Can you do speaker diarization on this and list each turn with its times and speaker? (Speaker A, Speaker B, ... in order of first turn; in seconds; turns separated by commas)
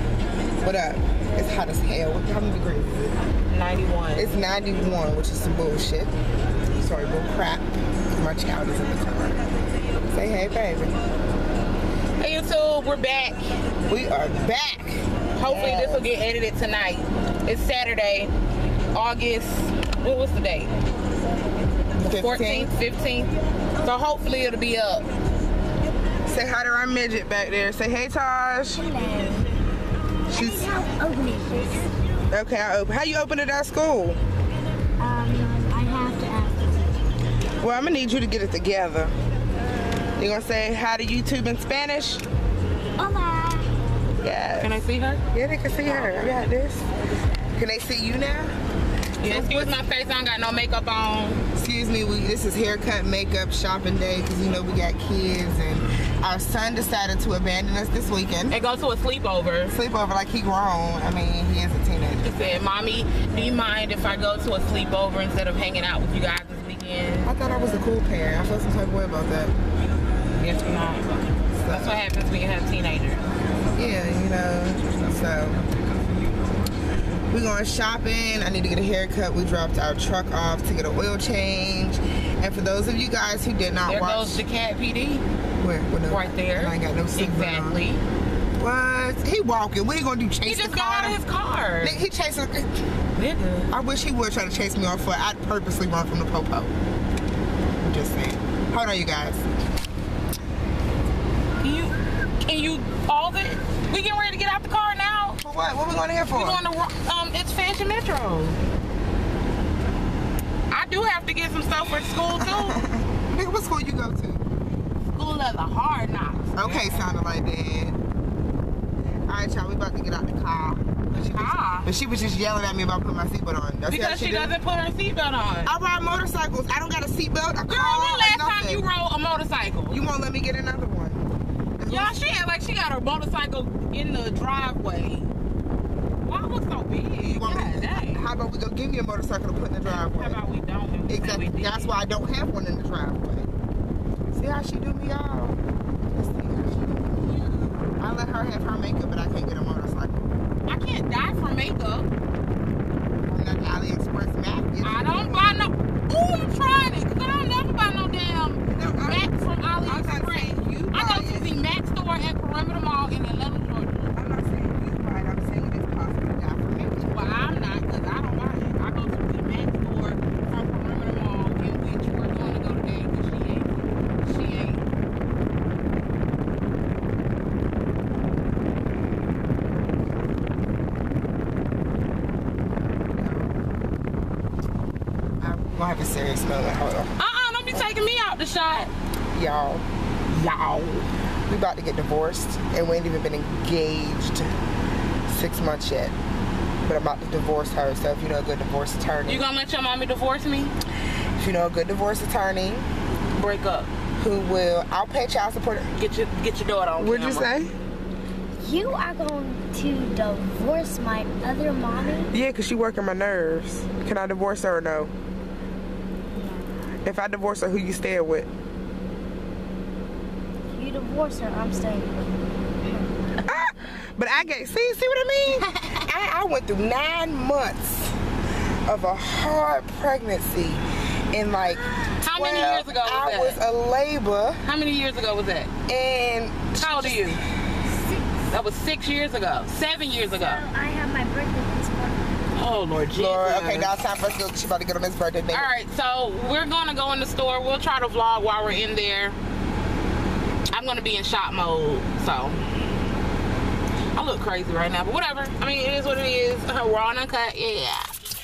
Speaker A: 0.6-3.2, Speaker B: 3.5-4.3, Speaker A: 4.2-6.1, Speaker A: 6.8-9.4, Speaker A: 10.1-11.0, Speaker B: 12.2-13.4, Speaker A: 13.9-16.1, Speaker B: 15.4-18.3, Speaker B: 18.9-20.7, Speaker A: 22.0-22.7, Speaker B: 22.1-25.1, Speaker A: 26.2-28.8, Speaker C: 28.8-29.5, Speaker C: 30.3-31.9, Speaker A: 30.3-30.7, Speaker A: 32.3-34.2, Speaker C: 35.0-37.0, Speaker A: 37.6-39.1, Speaker A: 40.2-42.2, Speaker C: 43.0-43.7, Speaker A: 44.2-44.8, Speaker B: 44.6-45.2, Speaker A: 45.3-46.9, Speaker A: 47.5-48.5, Speaker B: 49.2-51.4, Speaker A: 49.2-49.8, Speaker A: 51.5-58.6, Speaker B: 58.5-59.8, Speaker A: 59.7-62.6, Speaker B: 62.2-67.3, Speaker A: 67.2-69.5, Speaker B: 70.3-71.1, Speaker A: 71.6-72.0, Speaker B: 71.7-73.2, Speaker A: 73.7-75.6, Speaker A: 77.3-84.4, Speaker B: 83.9-85.2, Speaker A: 85.6-87.8, Speaker B: 86.1-88.0, Speaker A: 88.6-91.2, Speaker B: 90.5-92.0, Speaker A: 91.8-92.7, Speaker B: 93.2-93.7, Speaker A: 93.7-96.7, Speaker A: 97.8-99.4, Speaker B: 101.6-105.4, Speaker A: 105.4-106.6, Speaker B: 106.3-108.6, Speaker B: 110.7-112.8, Speaker A: 112.3-114.4, Speaker B: 115.1-117.1, Speaker A: 116.6-118.0, Speaker A: 119.3-124.6, Speaker B: 121.3-121.9, Speaker B: 123.9-125.7, Speaker A: 125.7-128.8, Speaker B: 127.7-130.0, Speaker A: 129.9-131.3, Speaker A: 131.8-132.2, Speaker B: 131.9-135.3, Speaker B: 136.2-138.2, Speaker A: 137.2-140.4, Speaker B: 139.8-142.0, Speaker A: 141.1-143.5, Speaker A: 144.3-147.4, Speaker B: 147.4-147.7, Speaker A: 148.0-150.2, Speaker B: 150.7-152.1, Speaker A: 153.3-155.6, Speaker B: 154.8-164.1, Speaker A: 158.7-161.5, Speaker A: 164.1-167.3, Speaker B: 167.0-174.8, Speaker A: 182.9-183.6, Speaker A: 185.4-187.1, Speaker B: 187.2-188.9, Speaker A: 189.3-189.8, Speaker B: 190.3-191.1, Speaker A: 191.5-194.5, Speaker A: 195.3-196.1, Speaker A: 196.8-199.4, Speaker B: 199.3-200.7, Speaker A: 201.4-202.8, Speaker B: 203.3-203.9, Speaker A: 204.2-205.9, Speaker B: 205.9-207.5, Speaker A: 207.0-207.7, Speaker C: 208.6-212.3, Speaker A: 212.3-215.1, Speaker C: 216.3-216.7, Speaker A: 217.0-218.5, Speaker C: 220.7-223.6, Speaker A: 223.4-228.2, Speaker B: 225.6-226.0, Speaker A: 228.9-234.6, Speaker B: 232.2-233.6, Speaker B: 234.6-235.7, Speaker A: 235.9-237.4, Speaker B: 236.8-237.4, Speaker B: 238.5-240.6, Speaker C: 240.3-242.4, Speaker B: 242.6-244.0, Speaker A: 243.1-245.7, Speaker B: 245.5-249.4, Speaker B: 250.7-252.6, Speaker B: 254.2-258.1